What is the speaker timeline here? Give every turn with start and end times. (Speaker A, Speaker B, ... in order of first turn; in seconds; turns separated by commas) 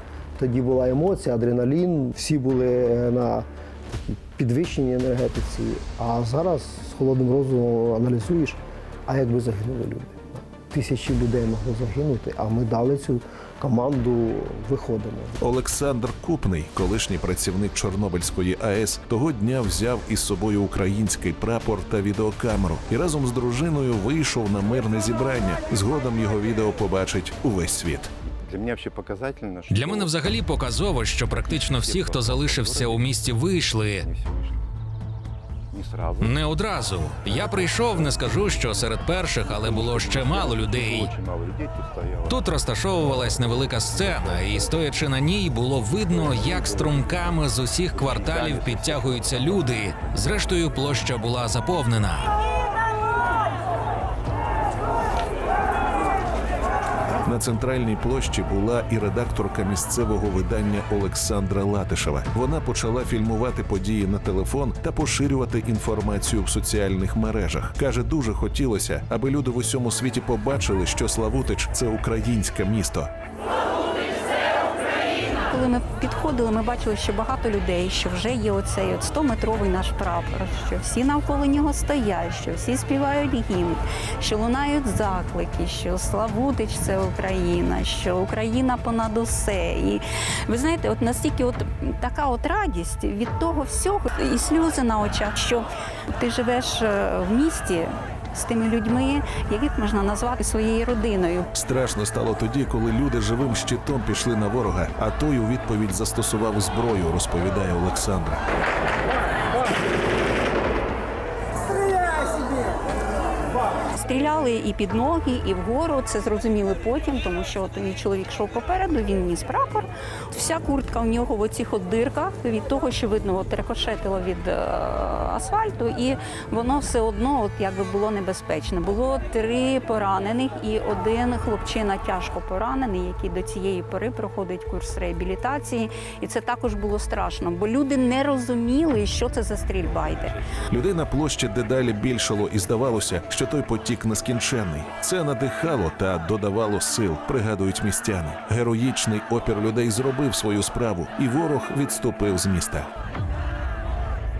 Speaker A: 0.4-15.4, Speaker B: 15.4-28.1, Speaker C: 28.3-34.6, Speaker D: 29.7-34.1, Speaker C: 35.7-50.3, Speaker D: 36.2-41.1, Speaker D: 42.3-52.3, Speaker B: 57.2-73.1, Speaker E: 75.5-101.5, Speaker B: 101.5-108.4, Speaker E: 113.9-140.4, Speaker B: 140.7-152.9